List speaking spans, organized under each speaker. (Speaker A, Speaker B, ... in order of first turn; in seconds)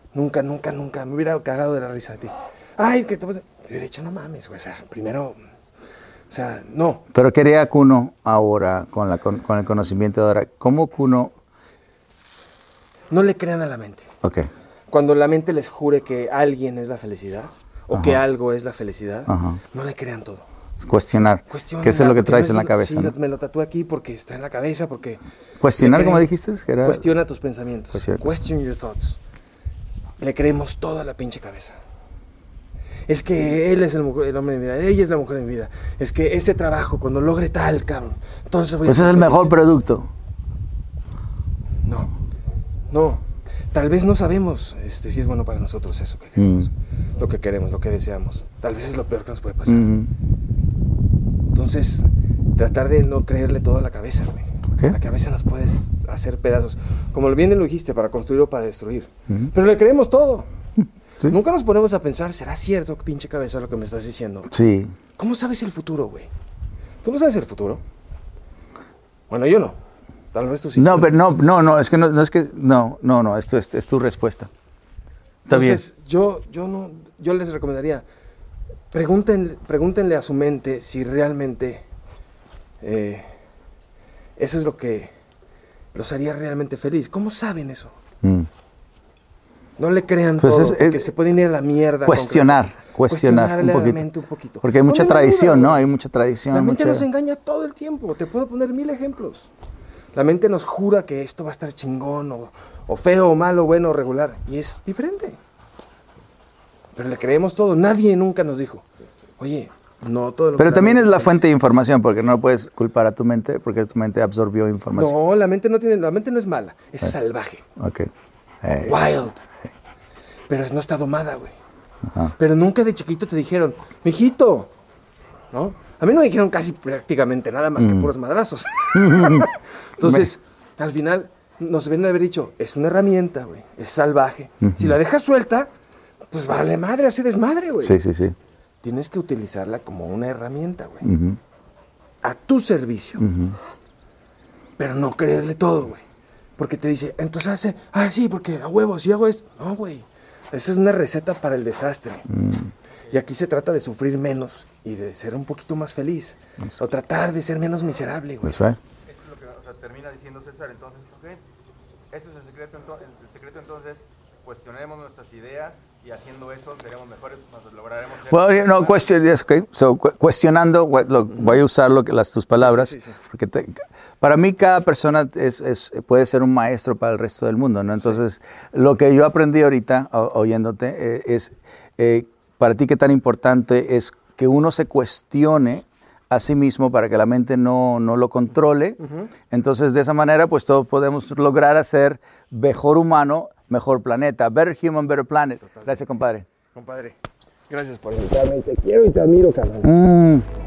Speaker A: 0.1-5.4, 6.3-7.0, 13.1-14.1, 14.9-20.4, 21.5-25.2, 25.8-26.3, 26.8-29.2, 30.2-31.8, 33.1-39.5, 41.8-42.1, 42.9-49.9, 51.5-60.5, 61.2-64.5, 65.2-66.3, 67.0-67.8, 69.3-69.8, 70.3-71.1, 75.5-78.0, 78.9-81.8, 82.8-83.3, 84.4-85.1, 85.9-88.0, 89.8-95.9, 96.5-99.5, 100.1-105.4, 106.9-108.8, 109.4-111.4, 115.0-117.7, 118.8-119.4, 120.5-121.5, 122.4-124.7, 125.5-135.7, 136.3-138.0, 138.8-141.1, 142.2-143.3, 144.8-146.0, 146.6-152.3, 153.1-158.6, 172.6-173.2, 189.0-189.3, 195.7-196.0, 196.7-197.2, 197.7-199.9
Speaker B: 7.1-11.3, 14.2-14.5, 17.9-18.2, 19.3-19.6, 20.8-23.1, 25.6-27.0, 27.9-28.4, 38.9-40.1, 46.4-46.7, 49.7-50.1, 60.8-61.4, 64.5-65.0, 70.8-74.5, 75.5-75.8, 88.2-88.5, 90.4-91.1, 92.0-94.1, 94.6-97.0, 110.6-115.2, 117.8-118.1, 118.6-119.0, 127.8-128.1, 128.9-130.3, 134.6-134.9, 137.8-138.3, 141.0-141.4, 143.2-143.6, 152.3-152.7, 158.4-158.8, 168.3-196.4, 199.8-200.4
Speaker C: 159.0-161.4, 162.1-169.0